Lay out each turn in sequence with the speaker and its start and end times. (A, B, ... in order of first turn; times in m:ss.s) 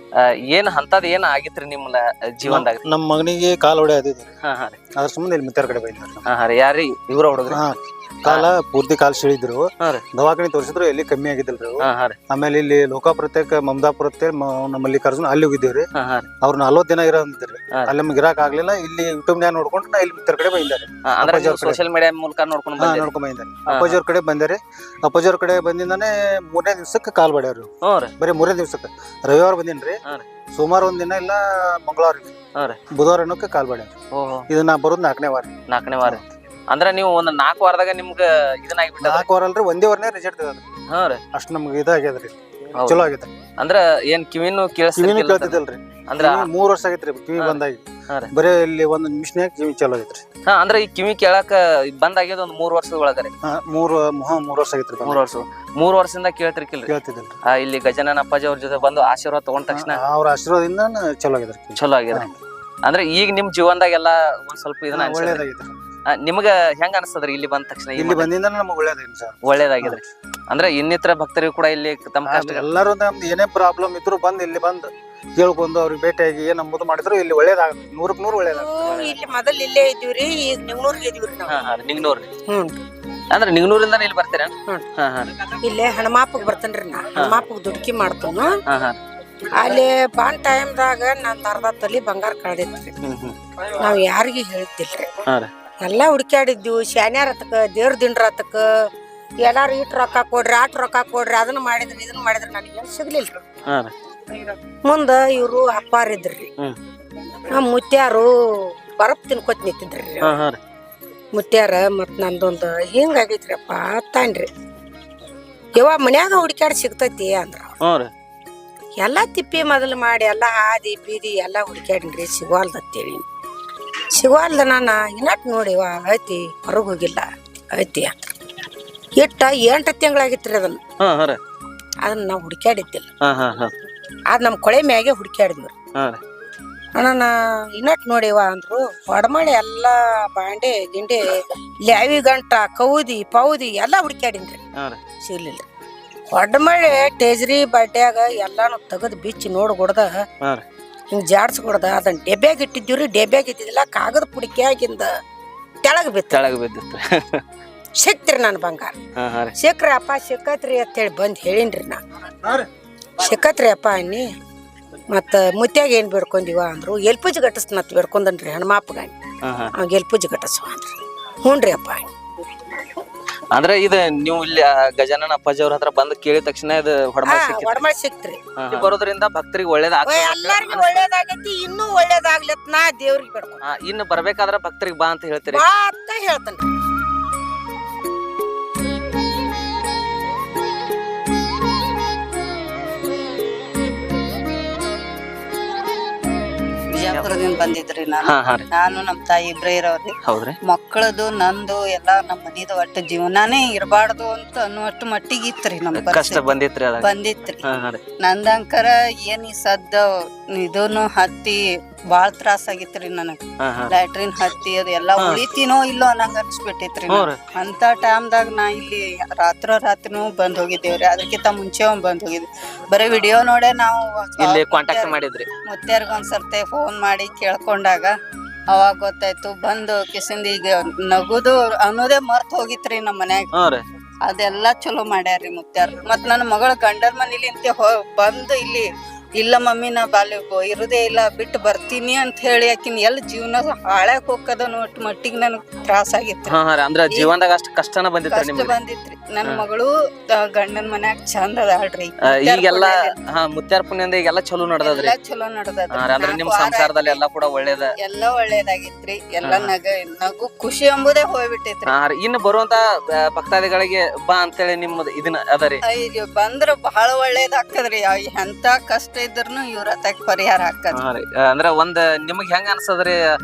0:00.2-0:02.8 A
0:02.4-0:04.3 B
0:04.4-0:04.8 A
0:05.0-0:06.2 B
0:06.2-0:07.6 A
0:07.5-0:15.9 B
0:11.8-0:12.2 A
0:16.0-0:16.3 A
0:16.4-0:21.8 B
0:21.1-0:23.1 A
0:22.8-0:30.0 B
0:23.7-0:24.0 A
0:27.8-0:28.1 A
0:30.5-0:32.3 B
0:32.9-0:33.9 B
0:34.1-0:34.5 A
0:34.5-0:35.5 B
0:35.7-0:39.3 A
0:39.0-0:40.6 B
0:40.9-0:41.2 A
0:41.3-0:43.3 B
0:42.8-0:43.0 A
0:43.6-0:46.5 A
0:45.0-0:50.2 B
0:50.5-0:53.3 A
0:53.4-0:55.2 B
0:55.0-0:56.9 A
0:56.9-0:57.4 B
0:57.5-1:00.0 A
0:59.7-1:02.3 B
1:01.8-1:02.3 A
1:02.8-1:05.4 A
1:04.9-1:05.7 B
1:06.1-1:08.3 A
1:08.0-1:10.0 B
1:09.4-1:12.7 A
1:12.2-1:18.7 B
1:18.5-1:21.5 C
1:18.8-1:19.2 A
1:21.5-1:22.3 A
1:22.5-1:22.8 C
1:23.3-1:25.3 A
1:25.6-1:28.6 C
1:27.2-1:27.4 A
1:28.7-1:29.0 A
1:29.6-1:32.9 C
1:33.0-1:33.3 A
1:33.7-1:35.1 C
1:35.8-1:38.6 C
1:39.4-1:43.3 C
1:44.3-1:46.5 C
1:47.5-1:48.3 C
1:49.0-1:50.3 C
1:50.2-1:50.6 A
1:51.3-1:54.5 C
1:55.8-1:57.7 C
1:57.8-1:58.1 A
1:59.0-2:03.2 C
2:04.1-2:08.1 C
2:09.2-2:10.8 C
2:11.0-2:11.4 A
2:12.0-2:13.0 C
2:13.2-2:13.7 A
2:14.3-2:15.7 C
2:17.0-2:21.2 C
2:21.9-2:24.6 C
2:25.2-2:25.6 C
2:26.3-2:30.1 C
2:31.1-2:35.1 C
2:35.8-2:36.4 C
2:36.3-2:37.4 A
2:38.0-2:39.0 C
2:39.2-2:39.5 A
2:39.6-2:42.0 C
2:43.2-2:44.2 C
2:45.1-2:49.2 C
2:49.4-2:49.7 A
2:49.8-2:52.0 C
2:53.5-2:57.8 A
2:57.2-2:58.4 C
2:58.6-3:01.0 A
3:00.0-3:03.6 C
3:03.6-3:05.6 A
3:05.5-3:06.6 C
3:16.9-3:20.1 D
3:18.2-3:18.6 A
3:20.2-3:20.6 A
3:20.7-3:27.6 D
3:25.9-3:27.1 A
3:27.6-3:28.0 A
3:28.2-3:30.0 D
3:30.6-3:31.6 D
3:32.1-3:48.1 D
3:33.6-3:33.9 A
3:37.1-3:37.4 A
3:44.4-3:45.5 A
3:48.7-3:53.5 D
3:53.5-3:53.8 A
3:54.3-3:58.8 D
3:59.4-4:06.6 D
4:06.5-4:08.8 A
4:08.3-4:09.9 D
4:10.5-4:13.1 D
4:12.3-4:15.1 A
4:14.8-4:17.2 D
4:15.9-4:17.9 A
4:18.0-4:21.9 D
4:19.4-4:19.7 A
4:21.9-4:25.8 A
4:25.9-4:31.0 D
4:30.9-4:33.2 A